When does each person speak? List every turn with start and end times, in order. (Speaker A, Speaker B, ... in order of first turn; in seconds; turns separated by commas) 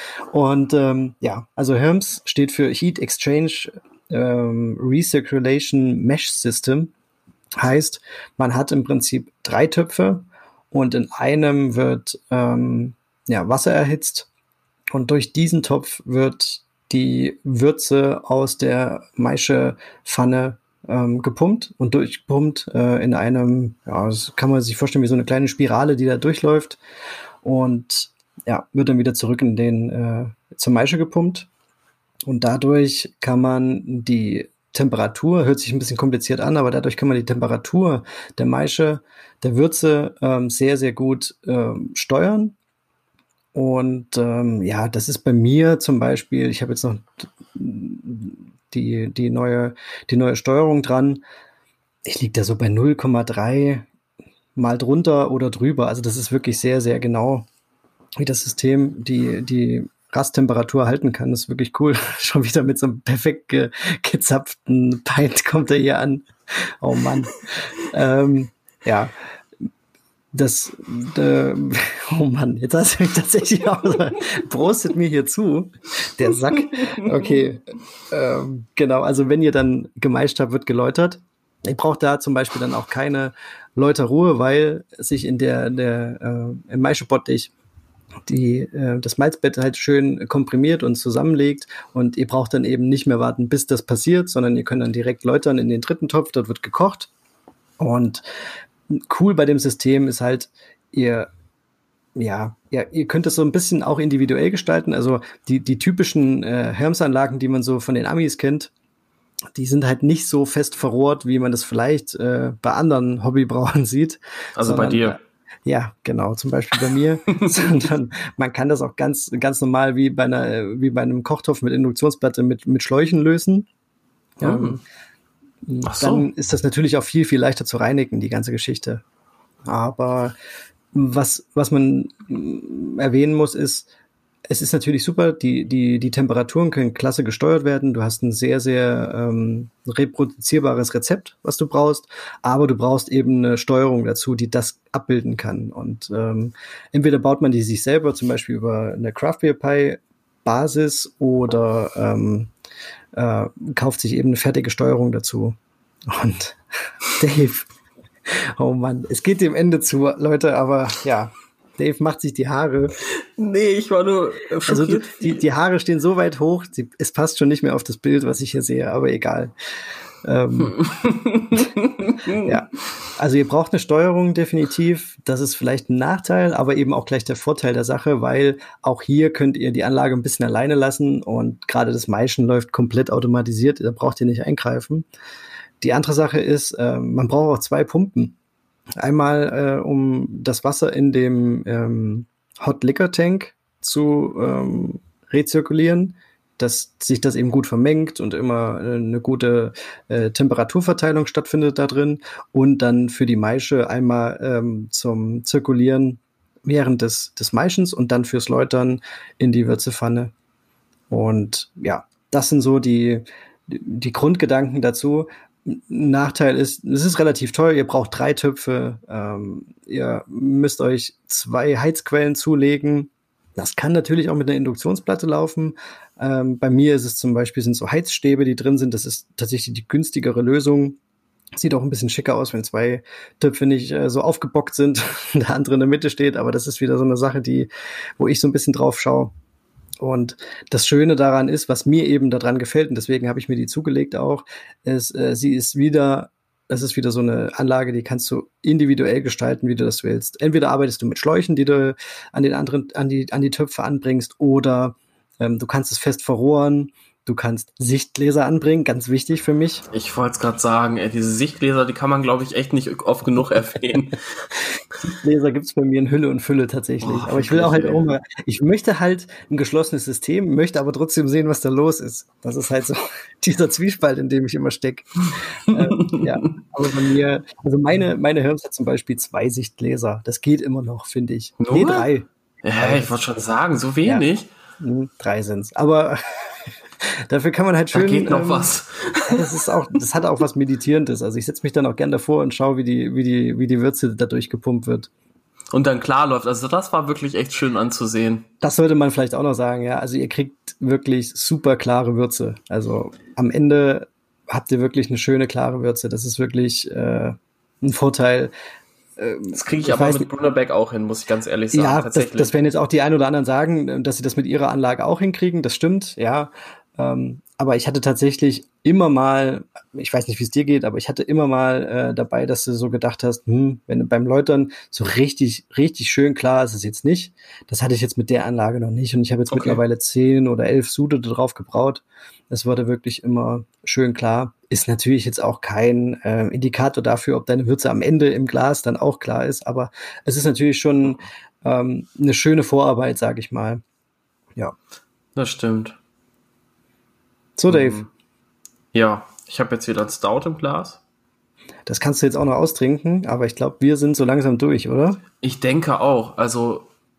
Speaker A: 0.3-6.9, Speaker A: 7.6-14.3, Speaker A: 14.9-26.8, Speaker A: 27.4-31.5, Speaker A: 32.3-42.5, Speaker A: 43.5-51.2, Speaker A: 52.1-53.9, Speaker A: 54.6-57.5, Speaker A: 58.2-69.1, Speaker A: 70.3-87.5, Speaker B: 76.8-77.1, Speaker A: 88.3-97.1, Speaker A: 97.8-98.2, Speaker A: 98.9-101.3, Speaker A: 102.2-108.7, Speaker A: 109.5-123.7, Speaker B: 114.6-115.2, Speaker B: 117.3-117.6, Speaker A: 124.4-124.8, Speaker B: 124.4-124.8, Speaker A: 125.7-129.0, Speaker B: 125.8-126.3, Speaker A: 129.7-130.3, Speaker A: 130.9-133.9, Speaker A: 134.5-152.5, Speaker A: 153.1-155.6, Speaker A: 156.1-156.6, Speaker A: 157.1-157.7, Speaker A: 158.3-162.9, Speaker B: 163.2-165.4, Speaker A: 164.7-169.5, Speaker A: 170.2-170.8, Speaker B: 170.7-172.6, Speaker A: 172.4-185.1, Speaker A: 185.8-188.4, Speaker A: 189.0-210.3, Speaker A: 211.1-231.0, Speaker A: 231.6-239.3, Speaker A: 240.0-259.9, Speaker B: 259.9-264.5, Speaker A: 265.0-283.1, Speaker B: 267.0-268.1, Speaker B: 275.3-276.4, Speaker B: 281.6-282.1, Speaker B: 282.6-284.5, Speaker A: 284.8-288.7, Speaker B: 287.9-289.4, Speaker A: 289.3-295.1, Speaker B: 295.7-298.5, Speaker A: 298.6-308.5, Speaker A: 309.2-310.3, Speaker B: 309.5-312.5, Speaker A: 311.7-343.8, Speaker B: 329.5-329.8, Speaker B: 345.4-346.0, Speaker A: 347.6-348.0, Speaker B: 347.7-348.1, Speaker B: 348.9-351.0, Speaker A: 351.9-355.2, Speaker B: 355.4-356.9